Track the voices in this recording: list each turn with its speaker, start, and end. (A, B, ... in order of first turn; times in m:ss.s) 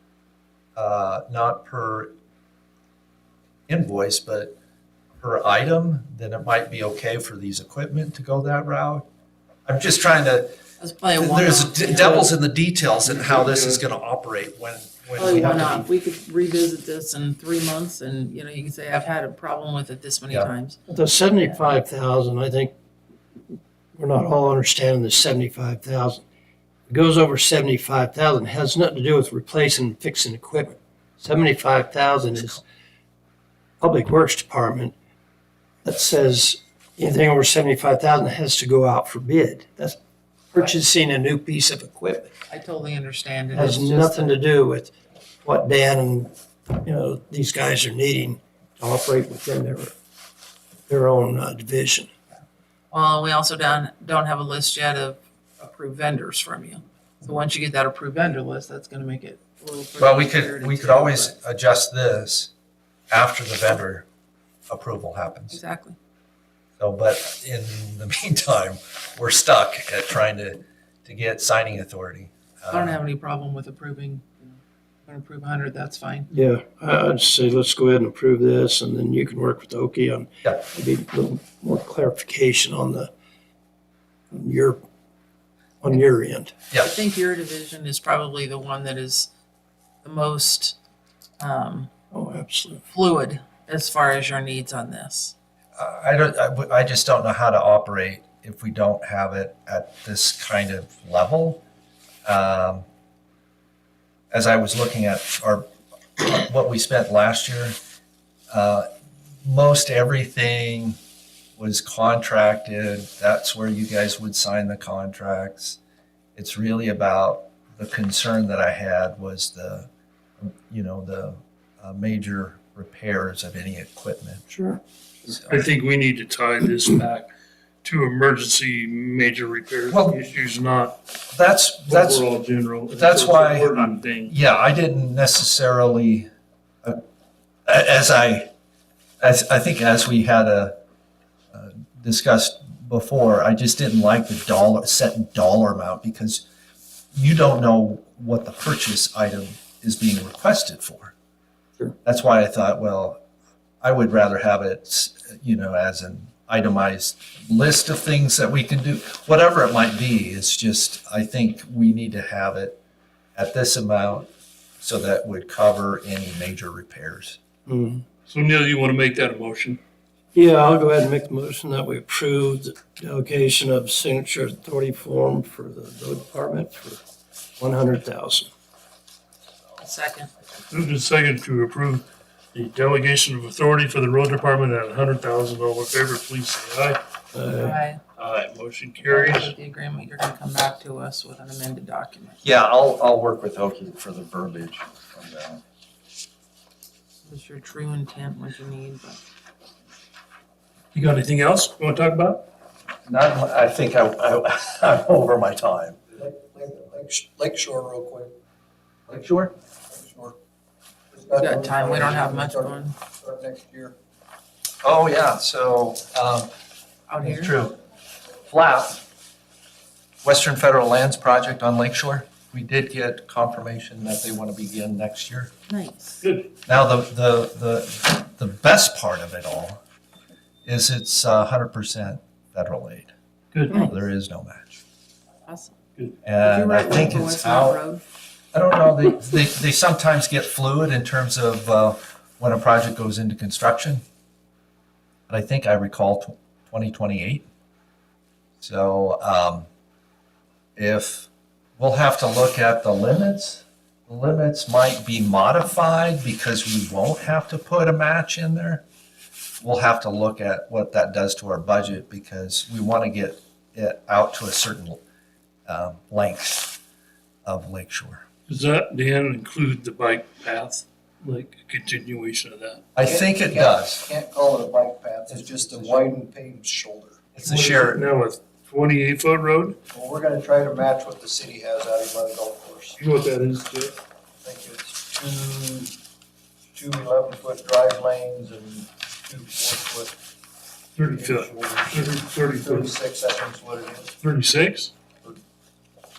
0:00.8-0:02.1 A
0:03.7-0:04.5 A
0:05.2-0:09.0 A
0:09.7-0:10.6 A
0:10.8-0:12.2 B
0:11.2-0:15.9 A
0:12.0-0:12.3 C
0:13.0-0:13.8 D
0:15.2-0:20.8 B
0:20.9-0:22.7 C
0:23.9-0:26.2 C
0:26.9-0:32.6 C
0:33.8-0:34.9 C
0:35.8-0:40.0 C
0:40.5-0:42.3 C
0:42.5-0:44.4 B
0:43.5-0:44.9 C
0:45.4-0:49.9 C
0:50.9-0:52.1 C
0:52.9-1:01.3 B
1:00.0-1:02.5 A
1:03.1-1:04.0 A
1:04.7-1:05.6 A
1:05.5-1:06.0 B
1:06.8-1:13.0 A
1:12.7-1:16.3 B
1:16.3-1:23.1 C
1:24.3-1:24.8 C
1:25.8-1:26.5 C
1:26.8-1:29.3 B
1:30.0-1:30.8 B
1:31.4-1:31.9 B
1:32.1-1:32.8 C
1:32.9-1:35.3 B
1:35.8-1:41.6 A
1:42.2-1:42.8 A
1:44.3-1:45.7 A
1:46.2-1:47.8 A
1:48.5-1:48.9 A
1:49.4-1:51.0 A
1:51.6-1:55.8 A
1:56.4-1:59.9 A
2:00.4-2:04.4 A
2:04.5-2:04.8 C
2:05.5-2:07.3 D
2:07.8-2:11.0 D
2:09.9-2:10.2 A
2:11.3-2:12.2 A
2:11.8-2:14.3 D
2:12.9-2:13.8 A
2:14.2-2:16.3 A
2:17.7-2:18.5 A
2:19.2-2:20.8 A
2:21.5-2:26.4 A
2:27.1-2:31.1 A
2:32.0-2:33.2 A
2:33.8-2:42.8 A
2:43.4-2:44.3 A
2:44.8-2:47.4 A
2:47.7-2:48.0 C
2:48.3-2:49.8 D
2:50.3-2:57.0 C
2:57.6-2:58.5 C
2:59.8-3:00.3 B
3:00.7-3:07.0 D
3:07.3-3:07.8 C
3:07.5-3:08.0 B
3:08.2-3:09.5 D
3:09.0-3:12.4 B
3:12.4-3:15.6 A
3:17.2-3:19.2 B
3:20.9-3:22.4 D
3:23.1-3:26.2 A
3:26.2-3:28.3 E
3:29.1-3:29.5 A
3:29.9-3:30.3 E
3:31.1-3:33.9 E
3:31.3-3:32.9 B
3:34.8-3:36.5 A
3:37.1-3:37.5 B
3:37.2-3:37.8 A
3:38.5-3:39.0 A
3:40.2-3:45.5 A
3:45.7-3:46.2 B
3:46.2-3:46.5 D
3:46.7-3:49.8 A
3:50.7-3:53.1 A
3:53.5-3:53.8 D
3:53.7-3:54.0 B
3:53.8-3:54.8 A
3:55.4-3:55.8 B
3:56.2-3:57.8 A
3:56.4-3:58.0 B
3:58.5-4:04.0 A
4:05.3-4:07.5 A
4:08.6-4:09.7 A
4:10.8-4:18.8 A
4:19.6-4:25.0 A
4:25.7-4:26.8 A
4:27.4-4:28.2 A
4:28.5-4:32.9 D
4:32.9-4:34.0 A
4:33.0-4:37.2 E
4:35.3-4:36.1 A
4:37.3-4:38.0 A
4:37.4-4:39.8 D
4:39.9-4:43.0 E
4:43.0-4:44.0 D
4:44.4-4:45.9 E
4:46.7-4:50.1 E
4:51.0-4:52.9 D
4:51.1-4:54.1 E
4:54.2-4:54.9 D